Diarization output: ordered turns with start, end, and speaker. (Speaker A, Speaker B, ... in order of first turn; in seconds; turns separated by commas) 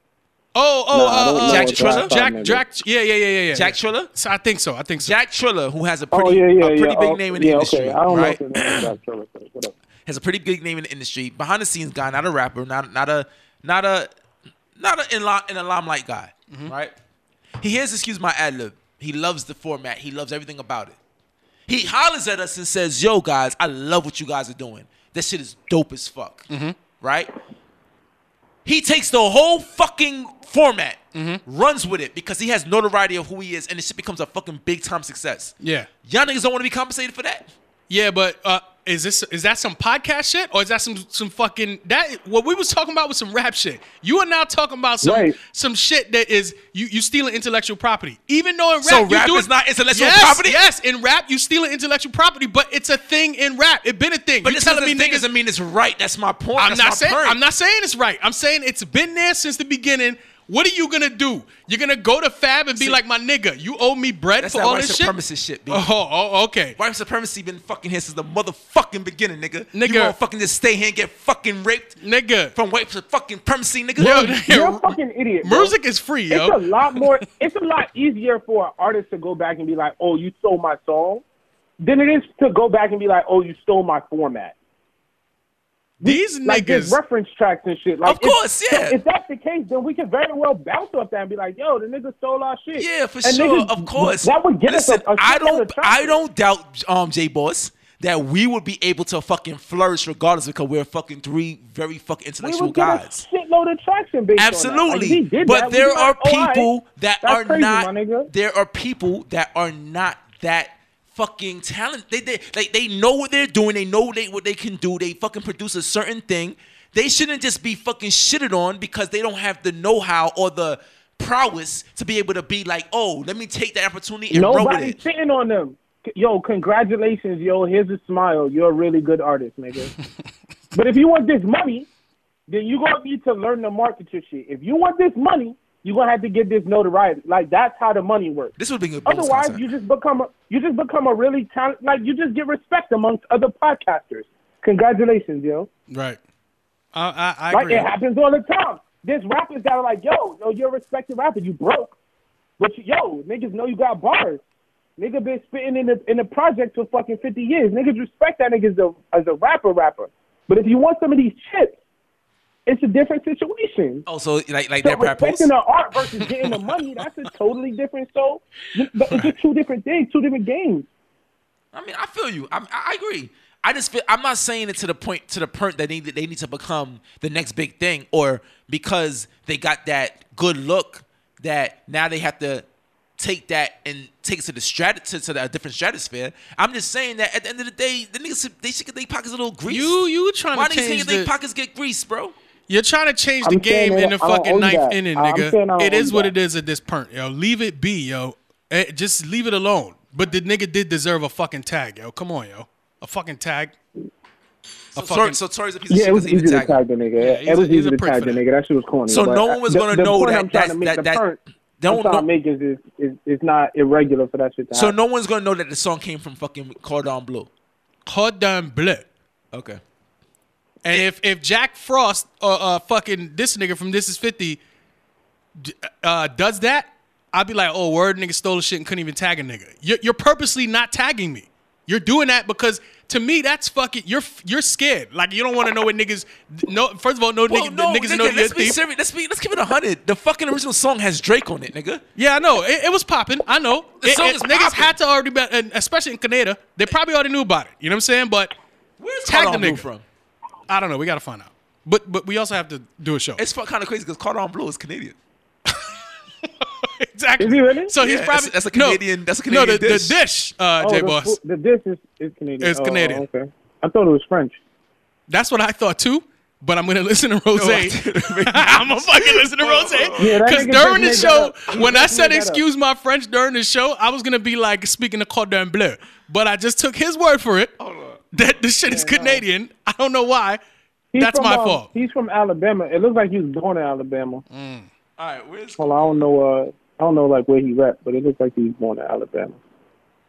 Speaker A: 0.6-5.2, Speaker B: 0.9-2.6, Speaker C: 1.4-2.1, Speaker C: 3.5-4.1, Speaker C: 5.0-8.9, Speaker B: 6.1-9.7, Speaker C: 10.1-14.1, Speaker C: 14.8-16.9, Speaker C: 17.6-21.0, Speaker C: 21.7-26.5, Speaker A: 26.5-26.8, Speaker C: 27.0-27.3, Speaker C: 28.6-37.5, Speaker A: 31.1-31.4, Speaker A: 35.6-35.9, Speaker A: 37.9-55.3, Speaker B: 45.0-45.4, Speaker C: 48.8-50.6, Speaker C: 54.4-57.4, Speaker A: 56.6-65.1, Speaker C: 64.4-65.9, Speaker A: 65.7-66.8, Speaker C: 66.8-72.0, Speaker A: 69.7-70.2, Speaker A: 72.0-72.5, Speaker C: 72.5-74.3, Speaker A: 74.0-77.2, Speaker B: 74.3-75.8, Speaker B: 76.3-81.2, Speaker B: 81.8-84.5, Speaker B: 86.0-96.2, Speaker A: 86.0-87.0, Speaker C: 88.0-89.0, Speaker C: 92.8-103.2, Speaker B: 102.4-106.7, Speaker C: 104.3-125.0, Speaker B: 107.2-108.3, Speaker B: 124.3-129.9, Speaker B: 130.7-131.9, Speaker B: 132.5-138.5, Speaker C: 138.6-139.7, Speaker B: 139.1-145.7, Speaker A: 145.9-146.2, Speaker A: 146.9-147.9, Speaker B: 147.5-152.0, Speaker B: 152.6-154.4, Speaker B: 155.0-161.8, Speaker B: 162.7-164.1, Speaker C: 164.1-165.5, Speaker B: 164.8-170.9, Speaker A: 166.1-167.0, Speaker A: 169.1-169.3, Speaker C: 171.7-182.7, Speaker C: 183.2-192.3, Speaker A: 189.7-191.3, Speaker A: 192.7-203.7, Speaker B: 193.4-196.3, Speaker A: 204.9-205.4, Speaker C: 204.9-207.5, Speaker B: 205.9-214.9, Speaker A: 207.3-208.4, Speaker C: 209.1-211.2, Speaker C: 211.8-212.3, Speaker C: 214.7-217.5, Speaker A: 218.1-219.1, Speaker C: 219.5-219.8, Speaker A: 220.8-224.6, Speaker A: 225.6-238.8, Speaker C: 237.5-242.0, Speaker A: 242.2-248.5, Speaker C: 244.0-244.9, Speaker C: 249.0-250.0, Speaker A: 249.2-249.9, Speaker A: 250.7-253.4, Speaker C: 253.4-255.2, Speaker A: 255.7-261.4, Speaker B: 257.4-257.9, Speaker C: 258.0-260.2, Speaker B: 260.8-264.6, Speaker A: 262.6-263.2, Speaker A: 265.3-277.7, Speaker C: 267.5-271.5, Speaker B: 270.2-272.6, Speaker C: 277.8-278.2, Speaker A: 278.3-280.6, Speaker B: 278.9-279.4, Speaker B: 281.1-284.4, Speaker A: 281.2-281.9, Speaker A: 284.5-284.9, Speaker C: 285.2-286.2, Speaker B: 285.8-289.6